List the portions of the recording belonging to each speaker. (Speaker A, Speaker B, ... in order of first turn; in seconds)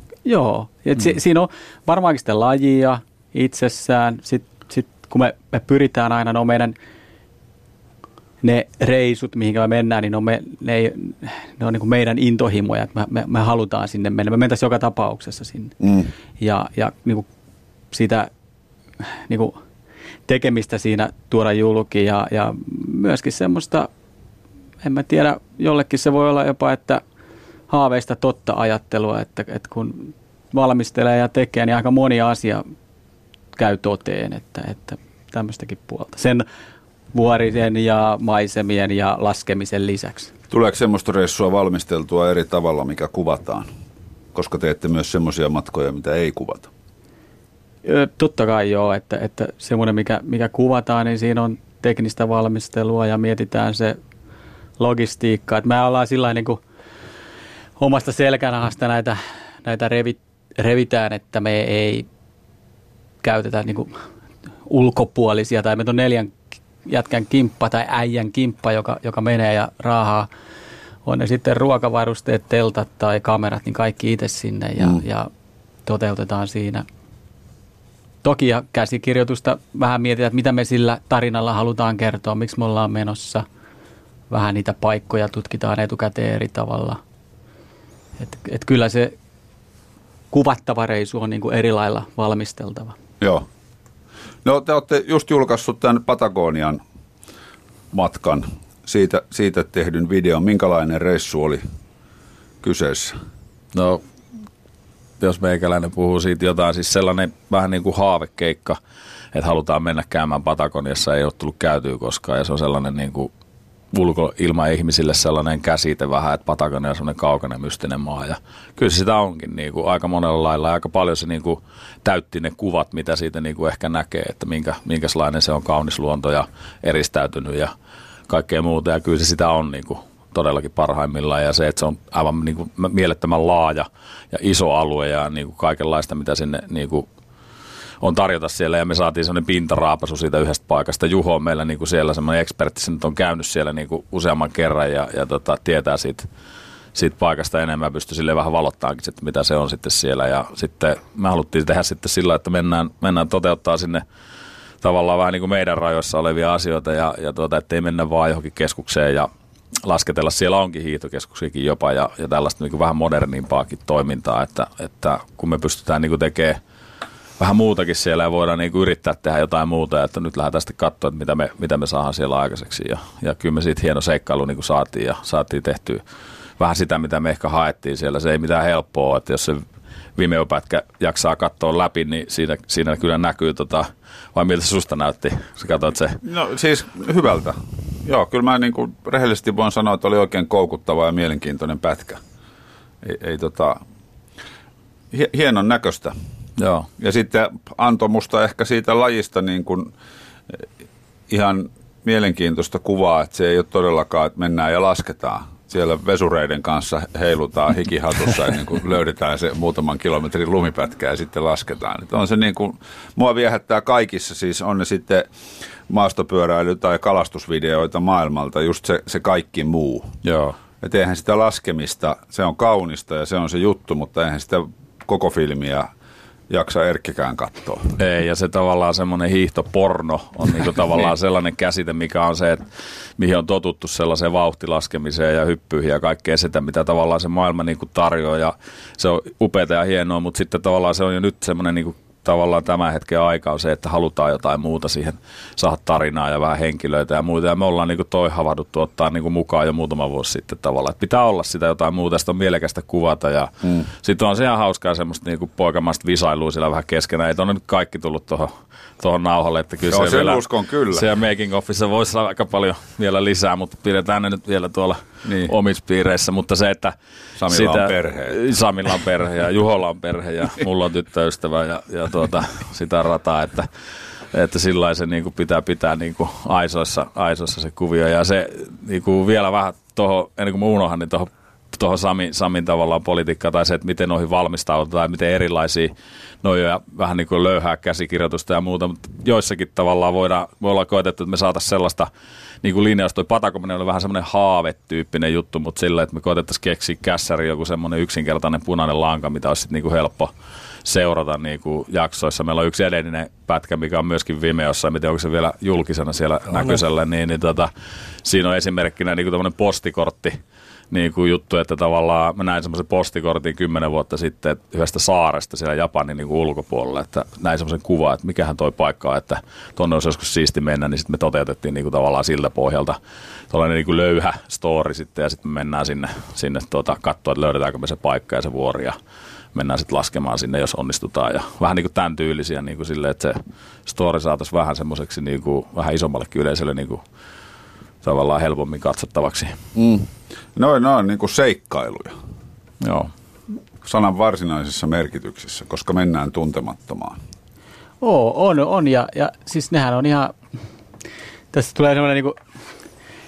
Speaker A: 0.3-6.8, 8.4-15.8, 16.4-17.3, 17.9-18.3, 19.3-19.6, 20.3-23.9, 24.8-27.0, 27.7-32.6, 33.6-36.5, 37.1-40.3, 47.9-54.0, 54.8-56.6, 57.8-62.1, 63.2-63.9, 64.7-70.3, 71.0-75.3, 75.9-76.9, 78.2-83.4, 84.3-87.0, 88.2-89.1, 90.3-93.0, 348.0-350.4, 351.5-352.4
Speaker B: 15.8-16.1, 40.5-43.7, 44.3-46.7, 94.5-96.8, 97.9-101.6, 102.6-103.2, 186.2-192.2, 193.0-193.8, 195.1-196.2, 197.0-199.9, 201.3-215.3, 215.9-220.2, 220.8-225.9, 226.5-228.0, 259.9-261.1, 265.2-265.5, 267.4-268.4, 339.8-342.1, 343.8-347.2
Speaker C: 103.7-104.0, 105.2-108.8, 109.3-113.3, 113.9-127.7, 128.3-137.1, 138.0-146.3, 146.9-154.0, 154.8-159.3, 159.8-166.6, 167.4-176.0, 176.6-179.6, 180.2-186.2, 196.6-196.9, 220.2-220.6, 228.0-232.7, 233.2-266.9, 267.5-273.7, 274.3-285.9, 286.4-292.1, 292.6-300.3, 300.9-307.7, 308.2-310.4, 310.9-323.0, 323.5-328.9, 329.5-337.0, 338.0-339.6, 342.8-343.1